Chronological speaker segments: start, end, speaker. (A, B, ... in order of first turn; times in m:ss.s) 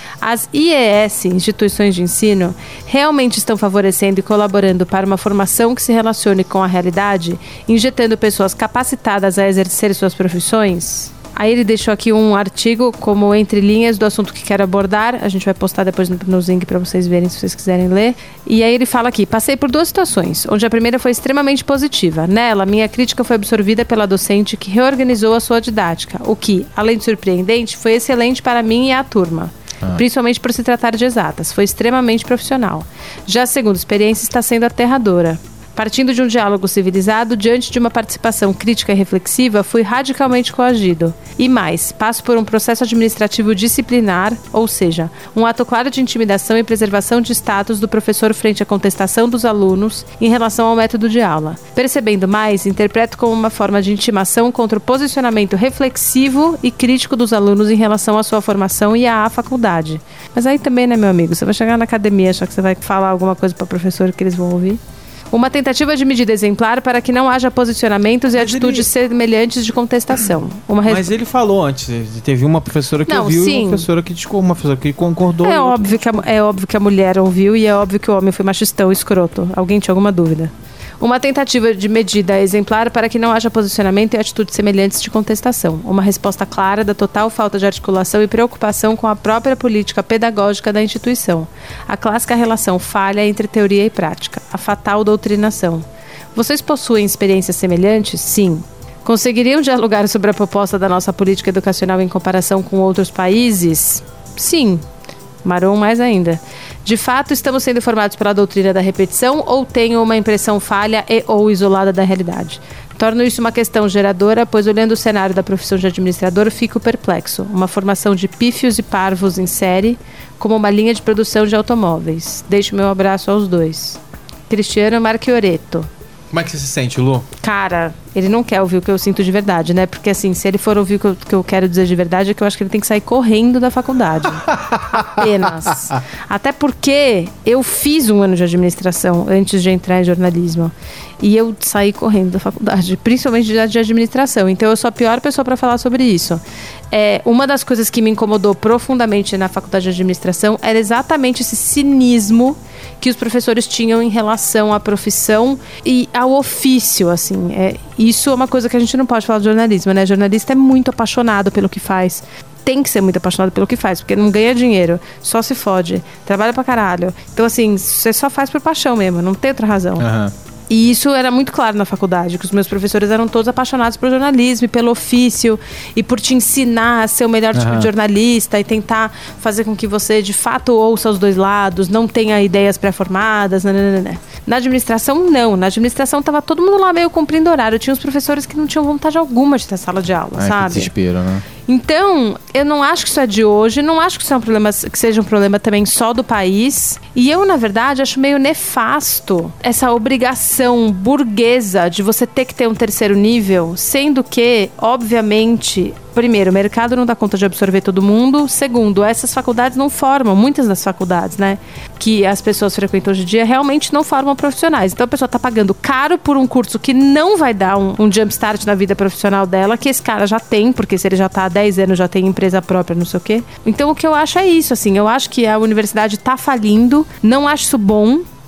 0:00.2-1:04.8 A
1:05.3-1:11.1 A
1:08.3-1:08.9 B
1:10.8-1:16.2 B
1:13.0-1:13.9 A
1:15.4-1:44.8 A
1:45.4-2:05.9 A
2:06.3-2:07.3 B
2:07.4-2:50.0 A
2:14.4-2:16.0 B
2:50.0-2:50.3 B
2:50.7-3:10.9 A
2:57.5-2:57.9 B
3:10.4-3:11.4 B
3:11.6-3:48.2 A